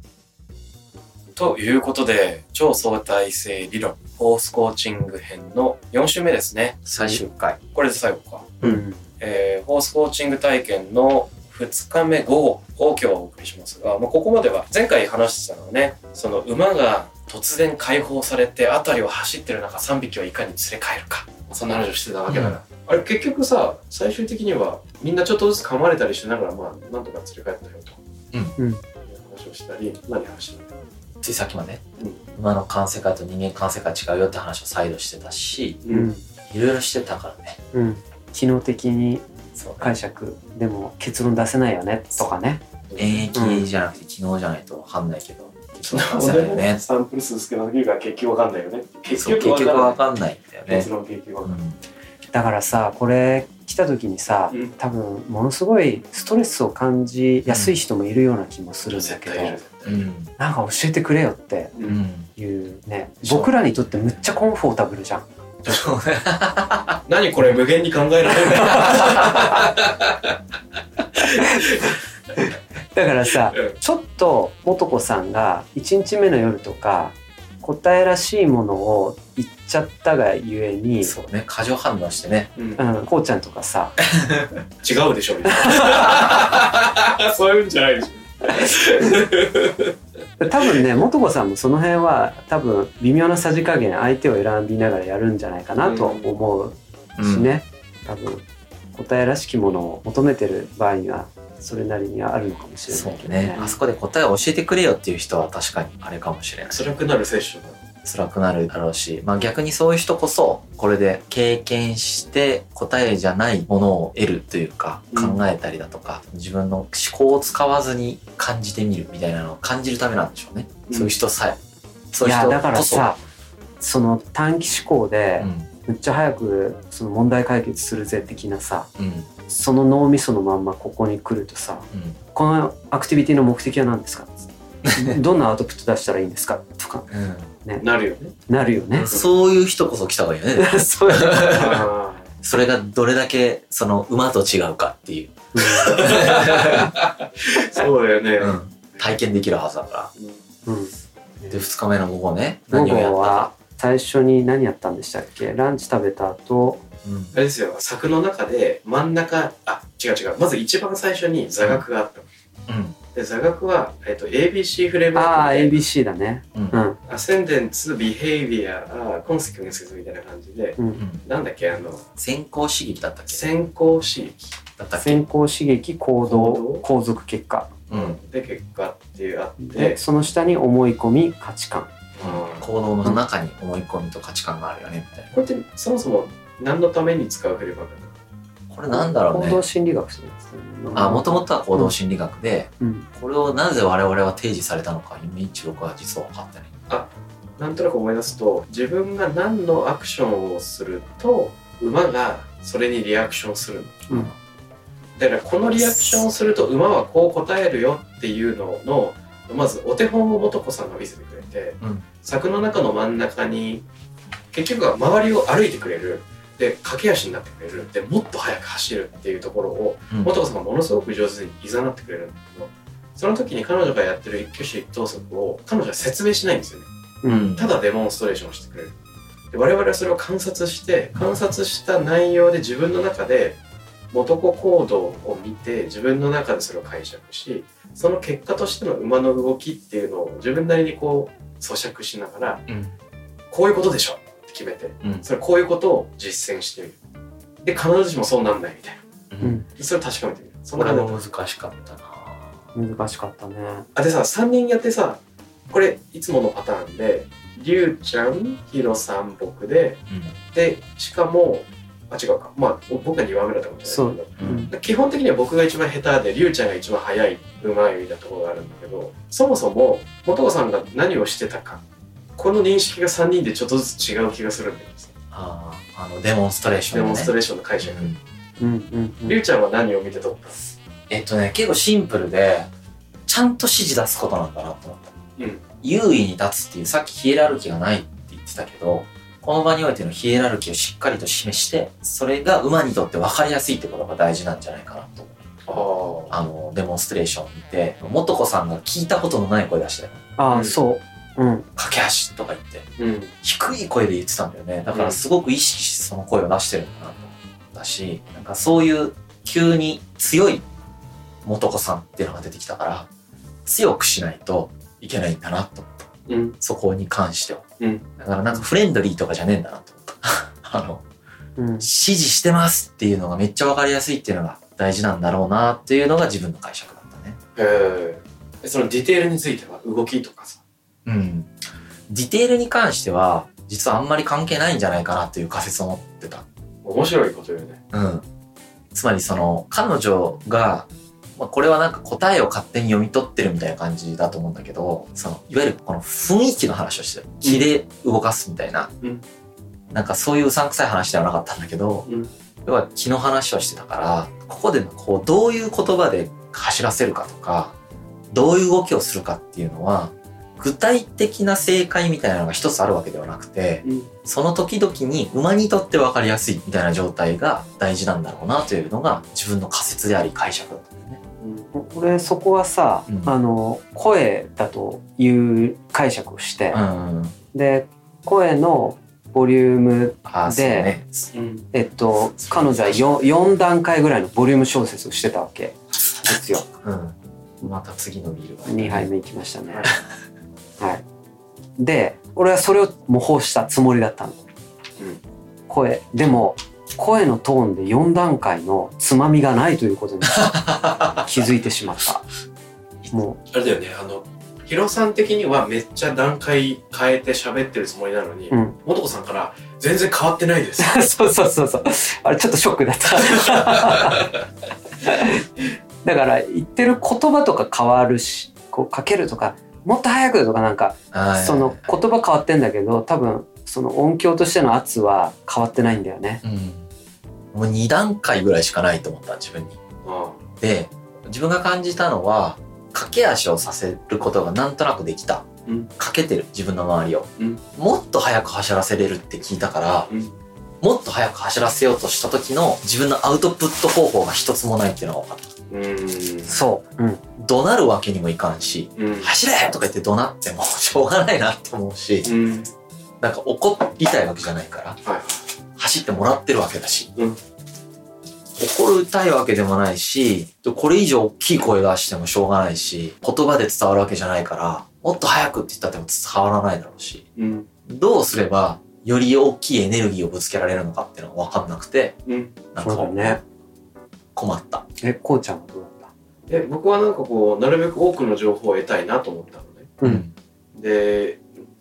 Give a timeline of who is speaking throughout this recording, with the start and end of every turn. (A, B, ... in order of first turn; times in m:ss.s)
0:01.4-0:06.8 A
0:06.8-0:07.6 B
0:07.0-0:07.2 C
0:07.7-0:08.6 A
0:08.6-0:09.0 C
0:09.2-0:28.0 A
0:22.3-0:22.6 B
0:28.6-0:28.8 C
0:29.1-0:30.8 A
0:31.2-0:31.8 B
0:32.4-0:35.8 B
0:35.8-0:36.1 A
0:35.9-0:36.2 C
0:36.5-0:37.6 B
0:37.7-0:39.3 C
0:39.6-0:39.9 B
0:39.8-0:42.6 C
0:42.9-0:43.3 A
0:43.0-0:46.8 B
0:43.4-0:43.6 C
0:45.9-0:50.0 A
0:49.2-0:50.9 B
0:50.7-0:51.6 A
0:51.4-0:51.8 B
0:52.3-0:59.6 C
0:57.5-0:57.7 B
0:58.9-1:00.0 A
0:59.8-1:00.3 B
1:00.4-1:01.7 C
1:01.8-1:02.3 B
1:02.4-1:05.3 C
1:03.2-1:03.5 B
1:05.6-1:06.0 A
1:05.7-1:07.0 B
1:07.1-1:10.3 A
1:08.6-1:09.2 C
1:08.6-1:09.4 B
1:11.2-1:11.6 C
1:11.2-1:12.0 A
1:12.9-1:21.1 C
1:21.0-1:22.5 B
1:22.6-1:22.8 A
1:22.8-1:24.0 C
1:24.1-1:24.5 B
1:24.8-1:29.9 A
1:25.7-1:26.0 C
1:30.4-1:43.6 C
1:35.8-1:36.3 A
1:37.2-1:37.5 B
1:42.9-1:46.9 B
1:46.7-1:47.8 A
1:48.0-2:01.6 B
1:55.1-1:55.4 A
2:00.9-2:01.2 A
2:02.1-2:03.2 B
2:02.2-2:03.2 C
2:03.8-2:08.9 C
2:05.4-2:05.7 B
2:09.0-2:09.3 B
2:09.5-2:17.1 C
2:11.9-2:12.2 B
2:14.8-2:15.2 B
2:17.1-2:17.5 B
2:17.8-2:18.3 A
2:18.5-2:19.1 C
2:18.9-2:21.9 B
2:20.6-2:21.9 C
2:21.5-2:22.3 A
2:22.4-2:26.9 B
2:25.5-2:26.0 C
2:26.0-2:28.6 A
2:28.4-2:30.1 B
2:30.7-2:31.6 C
2:31.5-2:33.5 B
2:32.7-2:36.8 C
2:37.0-2:37.3 B
2:37.3-2:42.3 A
2:42.7-2:43.0 B
2:43.2-2:45.8 A
2:45.2-2:47.0 C
2:46.6-2:46.8 B
2:47.1-2:52.1 A
2:51.0-2:51.2 B
2:52.2-2:53.4 B
2:53.3-2:54.5 A
2:54.8-2:55.3 B
2:55.0-2:57.7 C
2:56.2-2:56.8 A
2:57.9-2:58.2 B
2:57.9-3:00.0 A
2:59.6-3:01.9 C
3:02.2-3:02.7 A
3:02.2-3:05.3 B
3:05.3-3:08.1 A
3:08.7-3:09.6 B
3:08.9-3:11.9 C
3:10.9-3:16.7 B
3:12.8-3:13.1 C
3:16.9-3:24.3 A
3:25.2-3:33.8 A
3:34.5-3:46.9 A
3:47.2-3:47.5 C
3:47.3-3:47.6 B
3:47.6-3:48.9 A
3:49.5-3:53.6 A
3:54.1-4:02.6 A
4:02.7-4:02.9 B
4:03.5-4:07.0 A
4:07.6-4:09.0 A
4:09.3-4:09.6 B
4:09.4-4:09.7 C
4:09.8-4:11.2 A
4:10.8-4:12.6 B
4:12.8-4:13.9 C
4:14.0-4:20.0 A
4:20.1-4:20.4 B
4:20.5-4:31.8 A
4:23.9-4:24.7 C
4:24.4-4:24.7 B
4:32.4-4:35.1 A
4:35.3-4:38.2 B
4:36.9-4:38.1 A
4:38.6-4:39.4 C
4:39.3-4:40.6 A
4:41.1-4:42.7 B
4:43.3-4:45.1 B
4:45.4-4:45.6 A
4:45.8-5:00.2 B
4:55.7-4:56.3 A
5:00.4-5:01.7 C
5:00.5-5:00.8 A
5:01.8-5:02.9 B
5:03.0-5:03.3 A
5:03.4-5:10.6 B
5:04.9-5:05.2 A
5:11.4-5:13.1 B
5:13.7-5:17.6 B
5:16.3-5:16.6 A
5:18.2-5:21.0 B
5:21.6-5:21.9 C
5:21.8-5:27.4 B
5:27.6-5:30.6 A
5:31.1-5:31.5 B
5:32.1-5:36.5 B
5:36.8-5:37.8 A
5:37.9-5:38.2 B
5:38.9-5:48.9 B
5:49.9-5:52.1 B
5:52.6-5:57.8 B
5:58.3-6:11.2 B
6:03.8-6:04.1 A
6:11.4-6:11.7 A
6:11.7-6:16.8 C
6:13.1-6:13.3 B
6:16.7-6:17.4 B
6:17.5-6:20.9 C
6:20.2-6:21.3 B
6:21.3-6:21.7 A
6:21.7-6:26.6 C
6:22.4-6:23.3 B
6:26.6-6:29.1 B
6:28.6-6:30.0 C
6:31.8-6:34.4 C
6:35.7-6:42.2 C
6:40.5-6:41.5 B
6:43.1-6:43.4 C
6:43.5-6:51.0 A
6:48.5-6:48.8 C
6:50.8-6:54.3 C
6:55.0-7:06.4 C
7:01.1-7:02.0 B
7:06.4-7:06.9 B
7:07.5-7:09.8 B
7:10.0-7:10.4 A
7:10.6-7:20.1 B
7:20.8-7:25.5 B
7:25.7-7:26.5 A
7:26.5-7:27.2 C
7:27.4-7:32.3 B
7:29.0-7:29.3 A
7:32.2-7:32.7 A
7:33.2-7:35.0 B
7:35.0-7:35.4 A
7:35.8-7:37.1 B
7:38.6-7:47.2 B
7:47.4-7:47.7 A
7:47.9-7:52.2 B
7:52.3-7:52.5 A
7:52.7-7:53.4 B
7:52.8-7:53.4 C
7:54.4-7:54.8 B
7:55.0-7:56.1 C
7:56.5-7:59.9 A
8:00.0-8:00.3 B
8:00.8-8:01.5 A